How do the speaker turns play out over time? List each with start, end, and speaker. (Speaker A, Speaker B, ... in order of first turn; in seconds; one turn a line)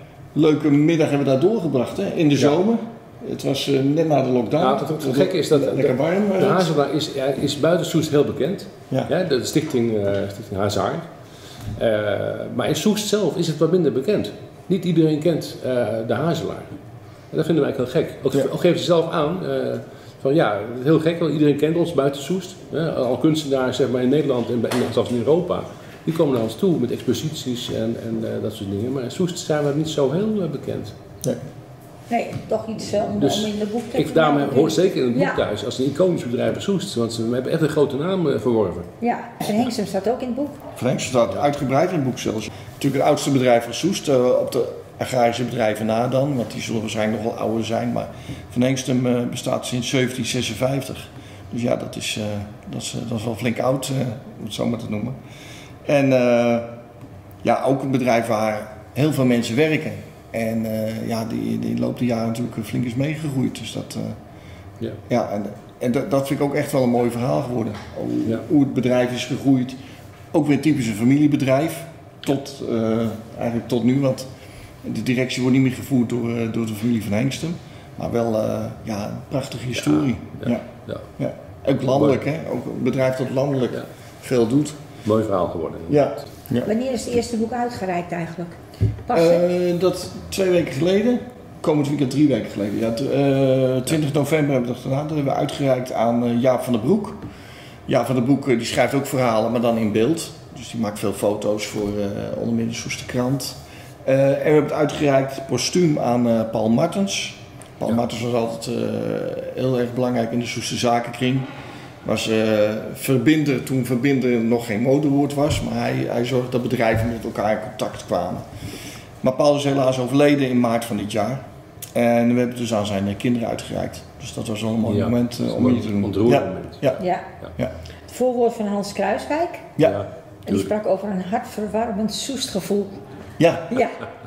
Speaker A: 0.3-6.7
Speaker B: 4.6-11.1
Speaker B: 11.8-16.8
Speaker B: 17.3-30.9
Speaker C: 32.1-35.4
Speaker B: 33.2-38.9
Speaker C: 39.0-40.6
Speaker A: 40.8-55.2
Speaker A: 55.8-56.7
Speaker A: 57.4-64.2
Speaker A: 65.1-69.8
Speaker A: 70.3-74.3
Speaker A: 74.8-84.8
Speaker B: 79.8-81.0
Speaker B: 81.9-82.2
Speaker B: 85.0-86.1
Speaker A: 85.9-86.7
Speaker C: 86.6-88.6
Speaker C: 89.1-89.4
Speaker A: 89.1-97.2
Speaker A: 97.9-111.5
Speaker A: 112.0-118.5
Speaker A: 119.2-121.4
Speaker A: 121.9-127.0
Speaker B: 124.8-127.5
Speaker C: 127.0-127.2
Speaker C: 128.1-129.7
Speaker B: 129.8-130.6
Speaker C: 130.4-133.0
Speaker A: 133.4-133.7
Speaker C: 133.7-134.0